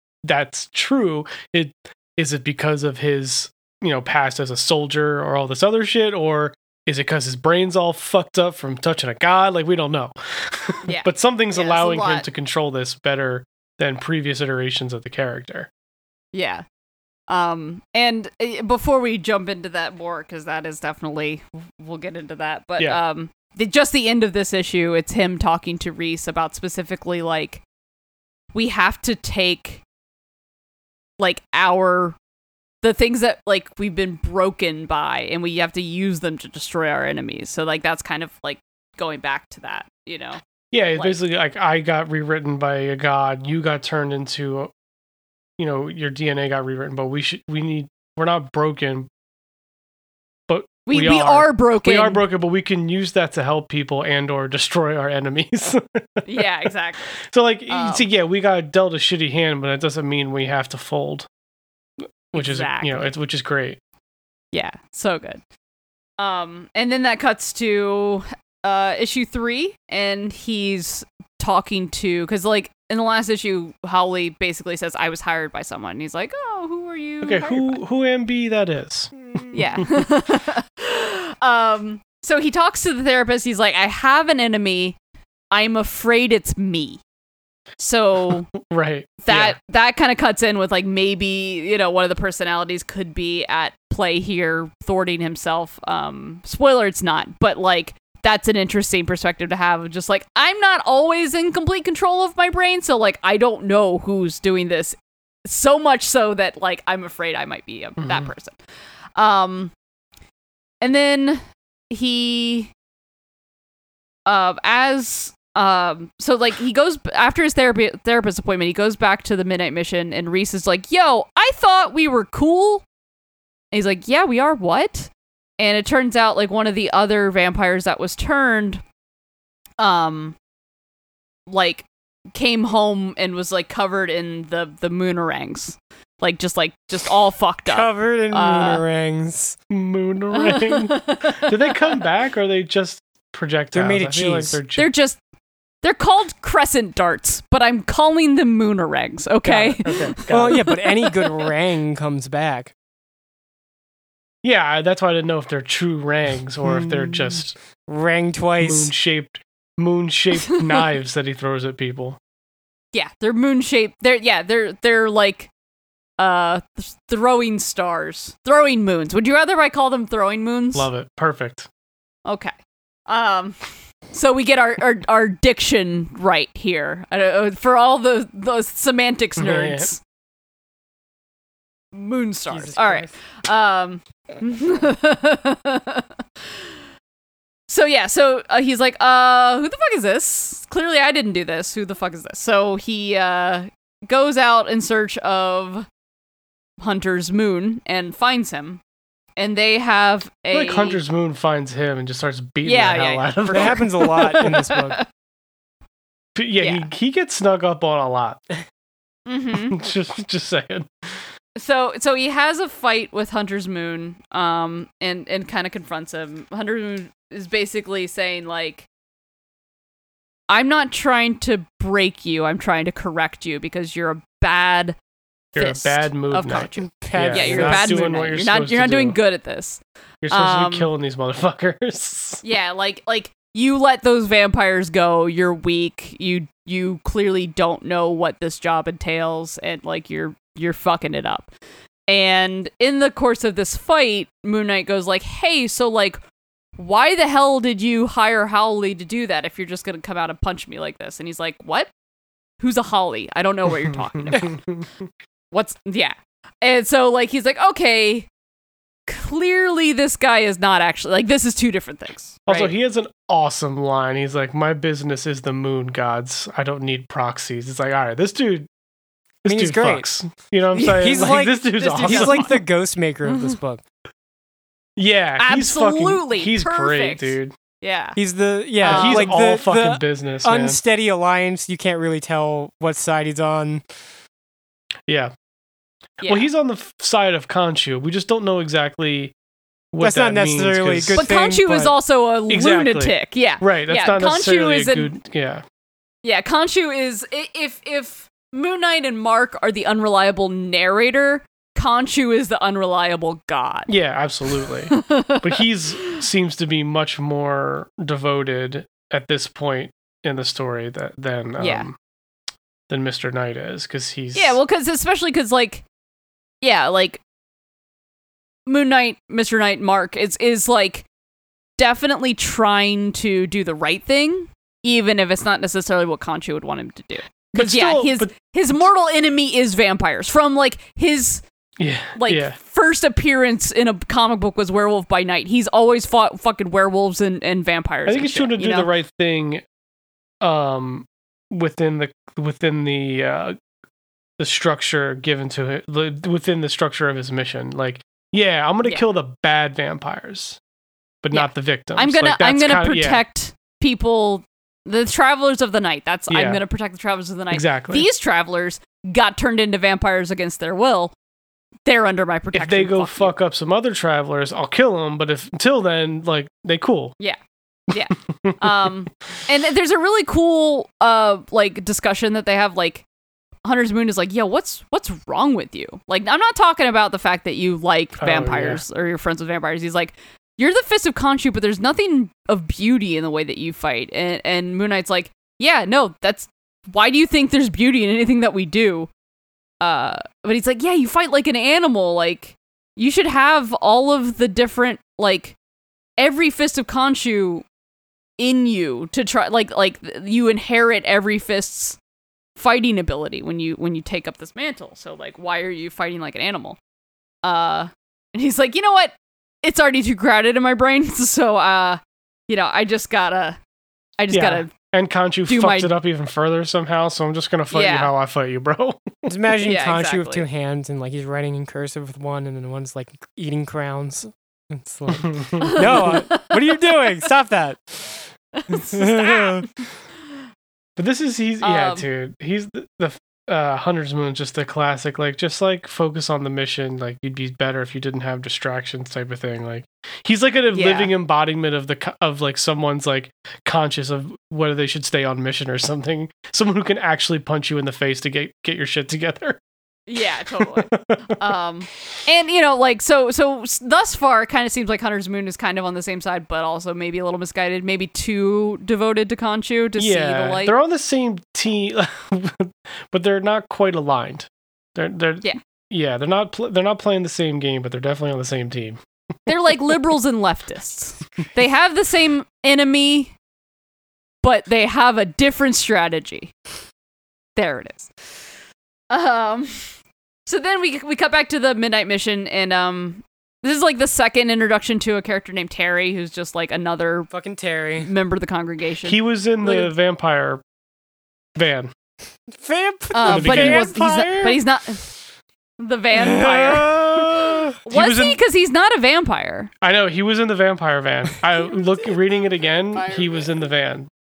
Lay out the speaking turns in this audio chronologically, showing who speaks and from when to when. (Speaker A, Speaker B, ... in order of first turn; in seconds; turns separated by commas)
Speaker A: 0.2-15.7, Speaker B: 10.9-12.2, Speaker B: 16.3-16.6, Speaker B: 17.3-27.6, Speaker B: 28.5-29.8, Speaker B: 31.2-32.1, Speaker B: 32.8-40.4, Speaker A: 40.7-44.7, Speaker A: 45.6-49.1, Speaker A: 50.5-56.5, Speaker B: 50.9-52.2, Speaker B: 56.2-57.1, Speaker A: 57.1-61.3, Speaker B: 57.7-58.1, Speaker A: 62.0-63.8, Speaker B: 62.3-63.1, Speaker B: 64.5-65.4, Speaker B: 66.2-77.8, Speaker A: 77.2-79.8, Speaker B: 79.5-85.0, Speaker B: 85.5-87.0, Speaker B: 87.8-88.5, Speaker A: 88.5-89.6, Speaker B: 89.2-108.6, Speaker A: 108.0-108.3, Speaker B: 109.2-109.7, Speaker B: 110.8-112.7, Speaker B: 114.2-122.8, Speaker B: 123.7-128.8, Speaker B: 129.8-130.4, Speaker B: 131.5-138.8, Speaker C: 137.7-139.6, Speaker A: 139.7-144.9, Speaker B: 140.3-141.8, Speaker C: 143.7-144.6, Speaker B: 144.7-145.2, Speaker B: 145.8-151.5, Speaker A: 149.4-150.6, Speaker C: 150.3-152.7, Speaker A: 154.4-157.6, Speaker C: 156.6-158.9, Speaker A: 158.6-162.2, Speaker B: 162.9-165.5, Speaker B: 166.2-170.9, Speaker A: 170.7-171.7, Speaker B: 172.2-172.5, Speaker B: 173.1-180.0, Speaker A: 179.4-179.9, Speaker B: 181.9-186.1, Speaker C: 182.5-183.1, Speaker B: 187.7-195.9, Speaker B: 196.8-198.8, Speaker B: 199.4-201.0, Speaker A: 200.5-204.5, Speaker B: 202.6-205.0, Speaker C: 203.5-205.0, Speaker A: 206.3-208.4, Speaker B: 206.6-206.9, Speaker B: 209.3-209.8, Speaker A: 209.5-211.2, Speaker B: 211.6-218.9, Speaker B: 220.5-224.9, Speaker B: 225.5-230.9, Speaker A: 225.6-229.2, Speaker C: 226.9-228.3, Speaker A: 230.2-232.4, Speaker B: 232.4-241.5, Speaker B: 242.1-246.2, Speaker B: 246.8-251.9, Speaker B: 252.6-254.6, Speaker A: 254.3-254.9, Speaker B: 255.5-258.3, Speaker B: 259.1-262.7, Speaker A: 262.5-268.7, Speaker A: 269.4-272.5, Speaker C: 269.5-270.1, Speaker B: 270.7-272.6, Speaker C: 271.0-273.8, Speaker B: 273.3-273.5, Speaker A: 275.0-277.5, Speaker B: 275.4-278.2, Speaker C: 278.1-283.8, Speaker B: 278.8-279.3, Speaker A: 278.9-280.8, Speaker B: 286.2-286.5, Speaker A: 286.2-289.3, Speaker A: 289.9-291.2, Speaker C: 290.0-291.9, Speaker B: 291.1-295.1, Speaker A: 292.5-295.6, Speaker B: 296.2-303.9, Speaker A: 303.9-311.9, Speaker B: 304.9-305.4, Speaker B: 311.6-311.9, Speaker A: 312.9-314.6, Speaker B: 314.3-315.8, Speaker B: 316.6-317.2, Speaker B: 318.6-321.1, Speaker B: 321.8-331.4, Speaker A: 327.5-328.3, Speaker A: 331.8-332.6, Speaker B: 332.1-338.9, Speaker A: 338.1-339.6, Speaker A: 340.4-343.6, Speaker A: 344.4-350.6, Speaker A: 351.2-353.2, Speaker B: 351.3-361.1, Speaker A: 356.3-356.6, Speaker A: 357.5-358.1, Speaker B: 361.9-363.3, Speaker A: 362.5-367.1, Speaker B: 367.9-373.0, Speaker A: 368.3-368.9, Speaker B: 373.6-389.1, Speaker A: 378.2-378.8, Speaker B: 389.8-395.6, Speaker B: 396.2-397.6, Speaker B: 398.4-402.0, Speaker B: 402.6-406.8, Speaker B: 407.4-413.6, Speaker B: 414.2-414.7, Speaker A: 414.3-419.3, Speaker B: 415.5-415.9, Speaker B: 417.7-418.1, Speaker C: 419.3-429.8, Speaker B: 419.6-420.4, Speaker A: 425.2-426.2, Speaker B: 425.6-426.9, Speaker B: 428.5-429.6, Speaker A: 431.0-449.6, Speaker B: 431.6-432.1, Speaker B: 440.7-441.1, Speaker B: 450.1-460.7, Speaker A: 450.6-451.4, Speaker A: 460.0-469.0, Speaker B: 469.5-473.3, Speaker B: 474.4-476.5, Speaker B: 477.6-478.4, Speaker B: 479.1-487.3, Speaker C: 487.3-488.1, Speaker B: 488.0-489.2, Speaker A: 489.0-490.6, Speaker A: 491.5-491.9, Speaker C: 492.5-494.6, Speaker B: 493.1-495.1, Speaker A: 493.2-494.0, Speaker B: 495.8-499.7, Speaker C: 496.2-497.7, Speaker A: 497.9-498.4, Speaker A: 499.8-504.1